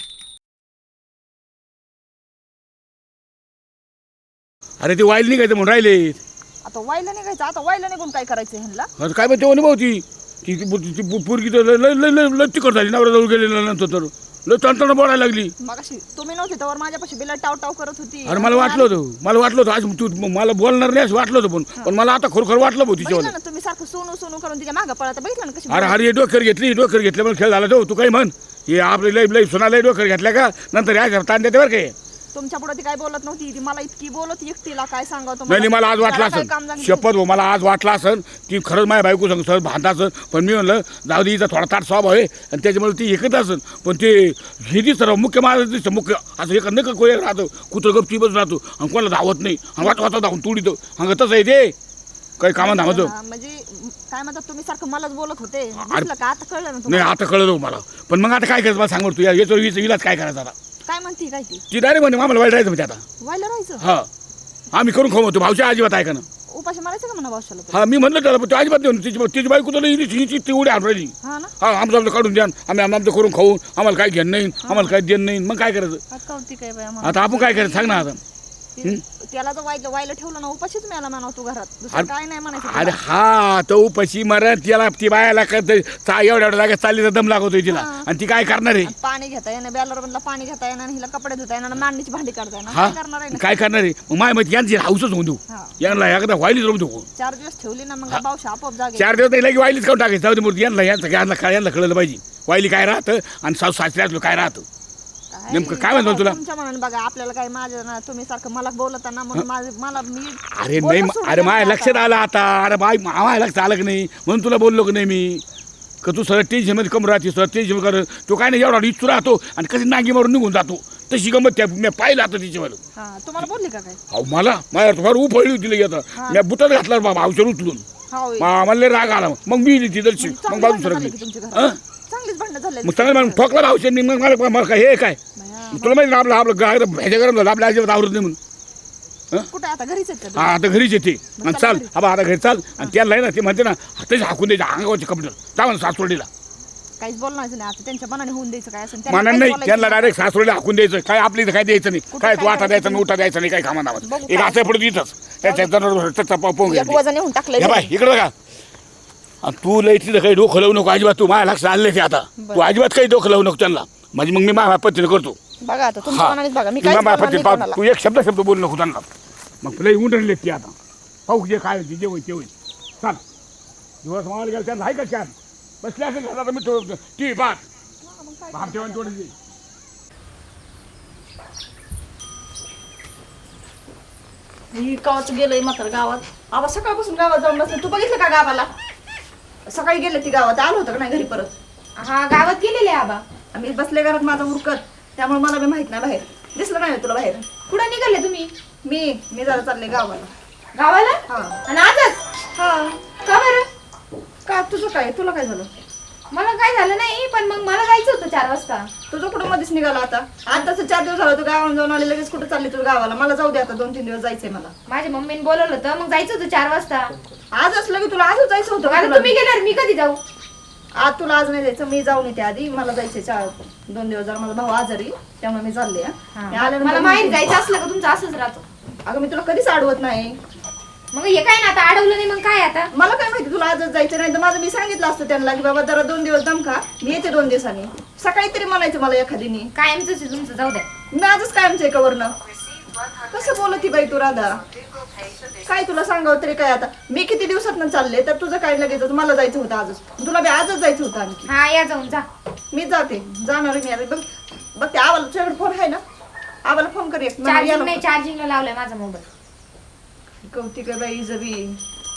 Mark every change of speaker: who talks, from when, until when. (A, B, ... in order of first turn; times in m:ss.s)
0:04.8-0:06.2 A
0:06.6-0:08.9 B
0:09.0-0:15.5 A
0:15.6-0:18.9 B
0:18.3-0:23.3 A
0:23.0-0:26.0 B
0:25.7-0:32.0 A
0:32.3-0:37.1 B
0:35.5-0:51.7 A
0:52.4-0:53.1 A
0:52.6-0:57.2 B
0:55.8-0:56.1 A
0:56.9-1:00.5 A
1:00.9-1:01.6 B
1:01.7-1:03.0 A
1:03.2-1:03.8 B
1:03.8-1:04.1 A
1:04.7-1:06.2 A
1:06.5-1:07.9 B
1:07.7-1:16.0 A
1:11.2-1:11.5 B
1:14.6-1:14.9 B
1:16.1-1:18.1 B
1:17.0-1:18.2 A
1:18.8-1:23.0 B
1:21.9-1:28.9 A
1:27.6-1:28.1 B
1:28.8-1:33.6 B
1:32.7-1:37.1 A
1:37.2-1:39.3 B
1:39.0-1:44.6 A
1:45.3-1:52.2 B
1:45.5-1:46.4 A
1:50.4-1:55.4 A
1:56.0-2:02.8 A
2:03.0-2:04.0 B
2:04.1-2:07.8 A
2:06.2-2:06.4 B
2:08.1-2:08.5 B
2:08.4-2:11.8 A
2:10.2-2:13.5 B
2:12.8-2:15.2 A
2:15.4-2:16.1 B
2:15.7-2:18.4 A
2:19.5-2:20.6 B
2:20.3-2:26.3 A
2:21.3-2:22.0 B
2:27.0-2:30.2 B
2:29.0-2:37.0 A
2:32.1-2:33.1 B
2:34.0-2:34.7 B
2:35.4-2:35.7 B
2:36.6-2:37.9 B
2:37.6-2:38.3 A
2:39.4-2:45.4 A
2:42.4-2:42.7 B
2:45.6-2:47.8 B
2:46.1-2:49.1 A
2:49.6-2:50.7 A
2:51.3-2:53.2 A
2:54.0-2:57.6 A
2:58.0-2:59.2 B
2:58.5-2:59.3 A
3:04.7-3:08.7 B
3:09.7-3:11.5 B
3:12.0-3:13.2 C
3:13.5-3:17.4 B
3:17.7-3:18.5 C
3:18.8-3:20.3 B
3:20.8-3:22.2 C
3:21.3-3:21.6 B
3:22.6-3:23.0 B
3:23.2-3:23.7 C
3:24.5-3:25.7 B
3:26.3-3:28.9 C
3:29.1-3:34.7 B
3:34.9-3:37.1 C
3:37.6-3:39.4 B
3:38.8-3:40.2 C
3:41.0-3:47.6 B
3:46.4-3:48.6 C
3:49.1-3:50.4 B
3:51.1-3:52.9 C
3:53.0-3:59.7 B
3:59.8-4:00.9 C
4:01.1-4:02.3 B
4:03.3-4:04.6 B
4:05.6-4:11.5 B
4:11.5-4:12.2 C
4:12.7-4:14.2 B
4:14.8-4:16.0 B
4:16.7-4:18.0 B
4:17.4-4:19.2 C
4:20.5-4:21.8 B